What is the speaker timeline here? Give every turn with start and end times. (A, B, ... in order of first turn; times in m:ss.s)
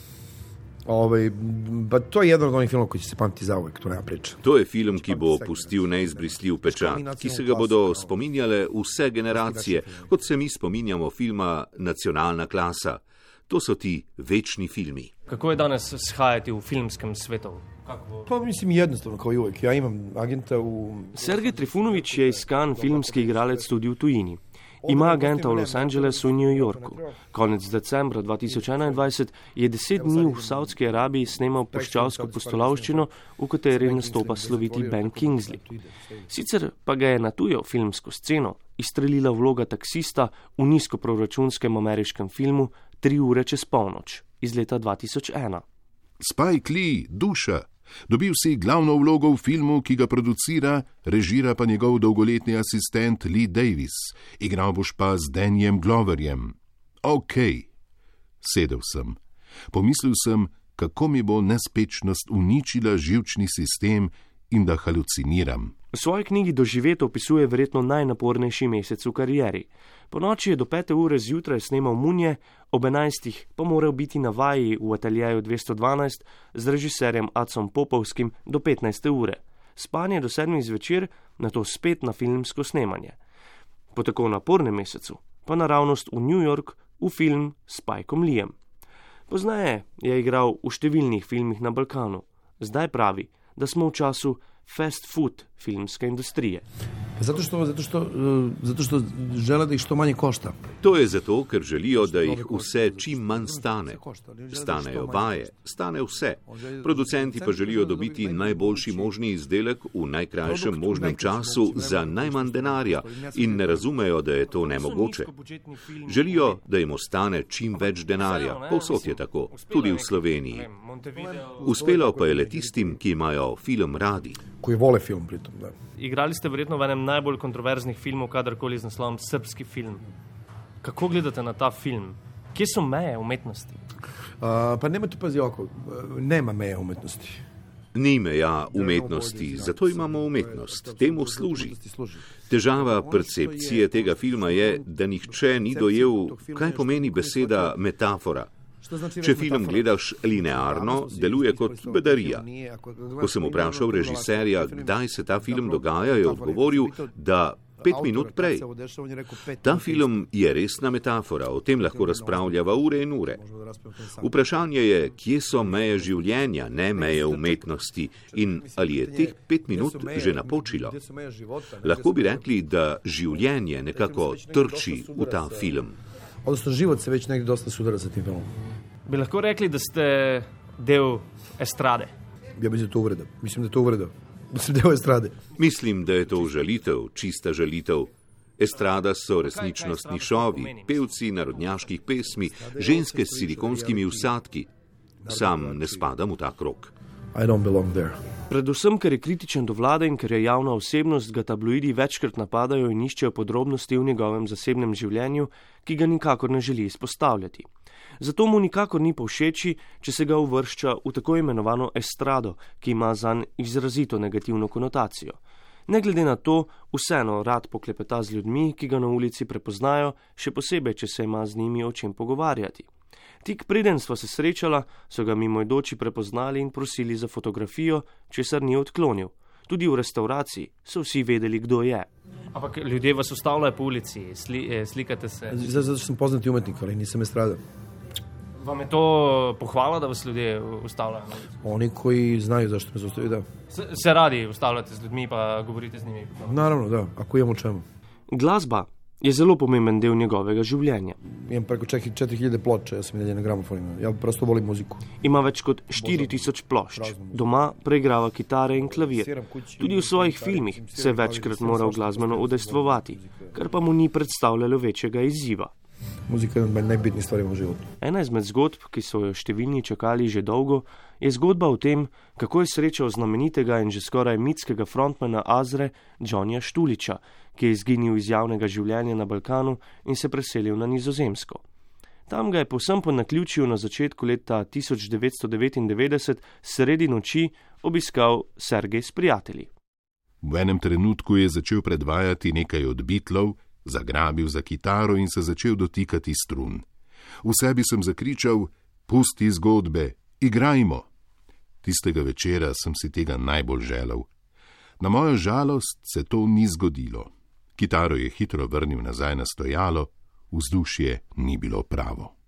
0:00.8-0:08.1 A
0:04.4-0:15.1 B
0:09.3-0:10.2 A
0:15.3-0:18.3 C
0:18.3-0:23.7 A
0:21.2-0:35.6 D
0:24.8-0:27.2 A
0:28.5-0:29.1 A
0:29.9-0:30.8 A
0:31.7-0:33.1 A
0:33.7-0:36.3 A
0:36.3-0:45.6 D
0:46.2-0:57.7 E
0:58.4-0:59.2 E
0:59.7-1:05.7 E
1:05.9-1:23.2 D
1:23.9-1:28.6 D
1:29.3-1:36.6 D
1:37.2-1:40.7 A
1:40.8-1:44.0 B
1:42.0-1:45.5 A
1:44.5-1:55.3 B
1:46.5-1:49.2 A
1:50.4-1:53.9 A
1:54.5-1:56.6 C
1:56.1-2:00.7 B
1:57.7-2:01.8 C
2:01.2-2:03.0 A
2:01.6-2:04.4 B
2:04.6-2:05.7 A
2:06.0-2:10.0 C
2:10.8-2:13.8 C
2:14.4-2:17.4 A
2:18.0-2:21.8 B
2:18.7-2:27.8 A
2:22.5-2:28.5 B
2:28.8-2:37.1 A
2:29.2-2:32.4 B
2:33.2-2:38.6 B
2:37.8-2:40.3 A
2:39.6-2:43.4 B
2:41.8-2:44.5 A
2:44.2-2:51.0 B
2:45.5-2:47.7 A
2:48.3-2:52.6 A
2:51.8-2:56.0 B
2:53.9-2:55.7 A
2:56.4-2:58.5 A
2:59.1-3:02.1 C
3:02.6-3:05.5 A
3:05.6-3:14.7 B
3:09.4-3:11.8 C
3:12.6-3:14.4 A
3:15.2-3:16.1 A
3:15.3-3:16.9 B
3:17.3-3:18.2 A
3:18.5-3:27.7 D
3:28.2-3:42.9 D
3:43.4-3:52.1 D
3:52.5-3:55.8 C
3:55.5-3:57.6 A
3:58.6-4:01.5 C
4:01.6-4:03.5 A
4:03.7-4:06.6 C
4:06.4-4:07.8 A
4:08.3-4:11.2 D
4:11.2-4:15.0 A
4:15.2-4:25.7 D
4:15.9-4:17.7 A
4:18.7-4:23.6 A
4:26.3-4:27.9 A
4:28.0-4:41.6 D
4:42.3-4:49.7 D
4:50.4-4:56.9 E
4:57.4-5:01.1 E
5:01.8-5:04.3 E
5:05.0-5:12.3 E